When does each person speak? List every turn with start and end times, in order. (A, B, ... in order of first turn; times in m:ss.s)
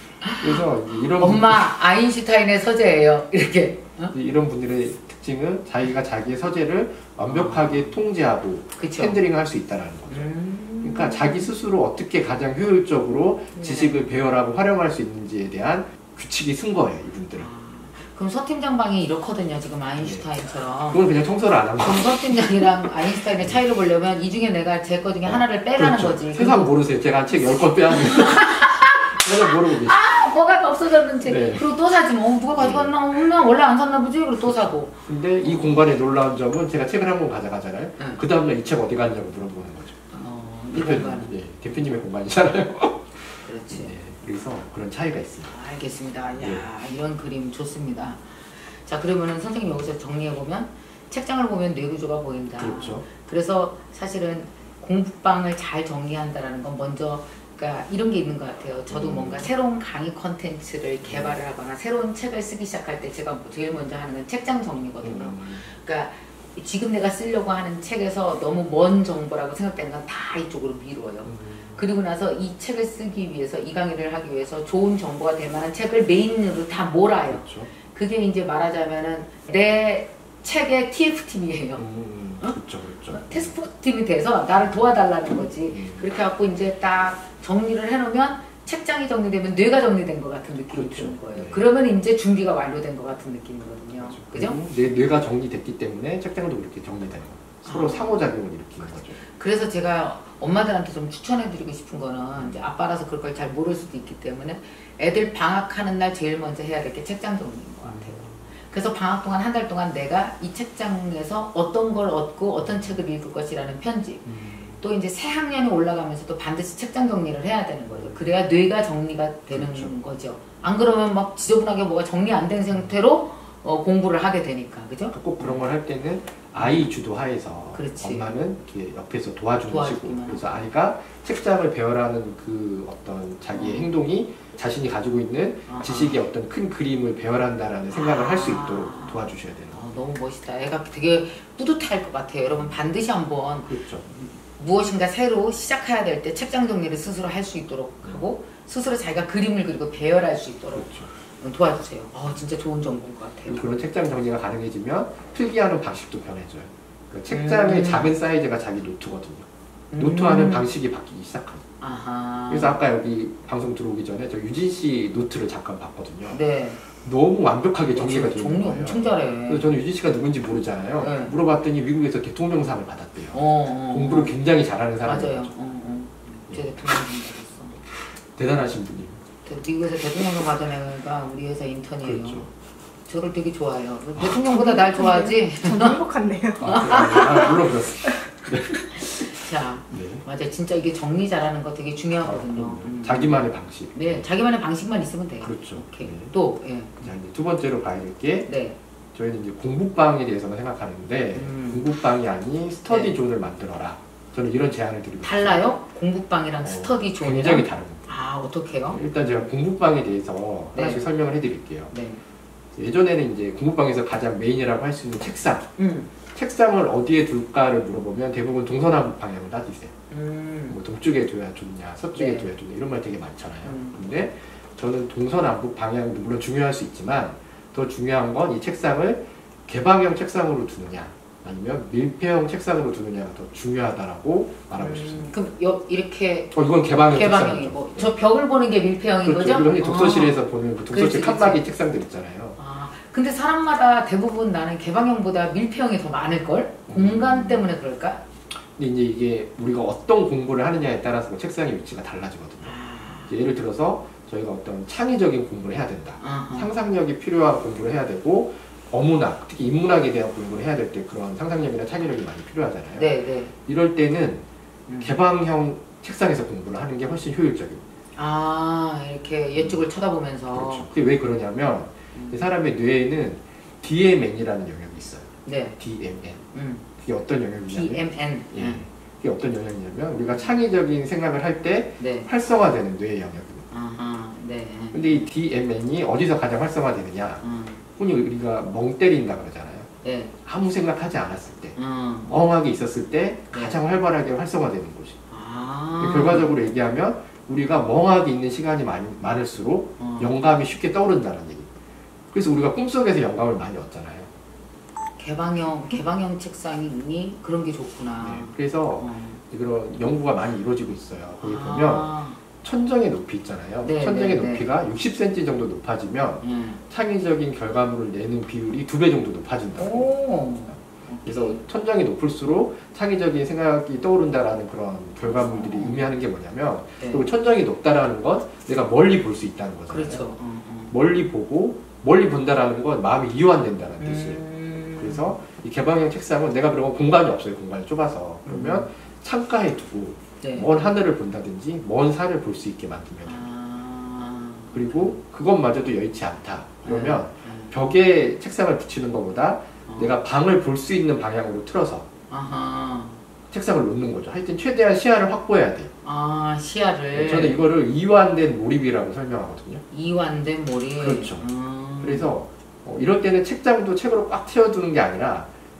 0:00.2-0:04.1 A
0:00.4-0:01.7 B
0:04.1-0:10.3 B
0:07.3-0:07.9 A
0:08.8-0:09.2 A
0:10.1-0:11.5 A
0:10.8-0:17.5 B
0:13.5-0:14.0 A
0:17.3-0:21.0 A
0:20.0-0:20.3 B
0:20.9-0:22.7 B
0:21.8-0:26.7 A
0:25.2-0:30.1 B
0:27.9-0:35.8 A
0:31.2-0:31.6 B
0:32.6-0:32.9 B
0:34.5-0:40.0 B
0:40.1-0:41.4 A
0:40.7-0:45.5 B
0:43.4-0:43.9 A
0:45.5-1:21.8 A
0:46.4-0:46.6 B
0:52.6-0:53.0 B
0:58.9-0:59.5 B
1:01.0-1:01.4 B
1:05.0-1:05.7 B
1:11.2-1:11.8 B
1:17.2-1:17.7 B
1:21.8-1:23.5 B
1:23.1-1:34.6 A
1:25.7-1:26.0 B
1:30.7-1:31.6 B
1:34.0-1:39.2 B
1:37.6-1:38.3 A
1:39.2-1:54.3 A
1:42.4-1:42.7 B
1:47.8-1:48.4 B
1:52.6-1:52.9 B
1:54.2-1:54.8 B
1:54.8-2:05.6 A
1:57.9-1:58.2 B
1:59.5-1:59.9 B
2:05.1-2:19.9 B
2:06.6-2:06.9 A
2:07.7-2:08.3 A
2:09.7-2:10.7 A
2:13.5-2:13.9 A
2:15.7-2:16.2 A
2:17.9-2:33.8 A
2:23.6-2:24.1 B
2:30.7-2:31.1 B
2:33.4-2:41.6 B
2:37.3-2:38.1 A
2:39.9-2:40.7 A
2:41.8-2:42.8 A
2:42.5-2:55.5 B
2:46.3-2:46.8 A
2:47.9-2:49.8 A
2:51.0-2:51.4 A
2:53.3-2:54.3 A
2:55.0-2:57.8 A
2:58.0-2:59.2 B
2:59.4-3:02.5 A
3:02.0-3:02.5 B
3:03.1-3:06.0 A
3:04.4-3:07.7 C
3:06.6-3:10.2 B
3:06.6-3:07.5 A
3:08.9-3:17.1 A
3:12.2-3:14.2 B
3:15.4-3:16.3 B
3:17.0-3:18.5 B
3:18.5-3:18.8 A
3:19.1-3:25.7 B
3:21.3-3:21.8 A
3:22.9-3:23.1 A
3:25.2-3:29.0 A
3:26.6-3:28.0 B
3:28.9-3:31.9 B
3:30.7-3:31.0 A
3:31.9-3:32.2 A
3:32.7-3:35.7 B
3:35.8-3:36.1 A
3:36.3-3:39.9 B
3:40.1-3:40.8 A
3:40.7-3:55.3 B
3:42.1-3:42.5 A
3:43.6-3:44.0 A
3:54.8-4:01.6 A
3:56.5-3:58.2 B
3:59.2-4:02.6 B
4:02.6-4:08.2 A
4:06.9-4:07.7 B
4:08.7-4:23.1 B
4:12.6-4:13.3 A
4:16.2-4:16.7 A
4:22.9-4:23.5 A
4:23.6-4:24.4 B
4:24.9-4:25.2 A
4:25.0-4:27.8 B
4:28.2-4:30.9 A
4:29.5-4:29.9 B
4:30.5-4:36.4 B
4:32.1-4:32.5 A
4:35.4-4:35.8 A
4:36.5-4:36.8 A
4:37.0-4:38.0 B
4:37.7-4:38.8 A
4:38.5-4:43.7 B
4:42.0-4:42.3 A
4:43.7-4:45.3 A
4:44.9-4:47.4 B
4:47.4-4:47.8 A
4:48.0-4:49.9 B
4:50.0-4:50.3 A
4:50.4-4:51.8 B
4:51.8-4:52.3 A
4:52.3-4:55.2 B
4:53.5-4:53.8 A
4:55.3-4:56.5 A
4:56.0-5:01.7 B
5:00.0-5:00.3 A
5:02.3-5:04.3 B
5:05.2-5:09.4 A
5:08.2-5:20.1 B
5:11.4-5:12.4 A
5:13.8-5:14.7 A
5:16.4-5:16.8 A
5:19.8-5:21.6 A
5:20.7-5:30.3 B
5:25.2-5:26.0 A
5:27.0-5:27.3 A
5:29.9-5:30.9 A
5:30.9-5:34.4 B
5:34.0-5:35.4 A
5:35.0-5:43.4 B
5:38.4-5:38.9 A
5:40.4-5:40.7 A
5:43.2-5:45.2 A
5:44.7-5:52.1 B
5:46.8-5:47.8 A
5:49.8-5:50.2 A
5:52.3-5:53.2 A
5:53.5-5:55.9 B
5:56.0-5:57.6 A
5:57.1-5:59.8 B
5:59.9-6:02.4 A
6:01.0-6:01.4 B
6:02.0-6:05.5 B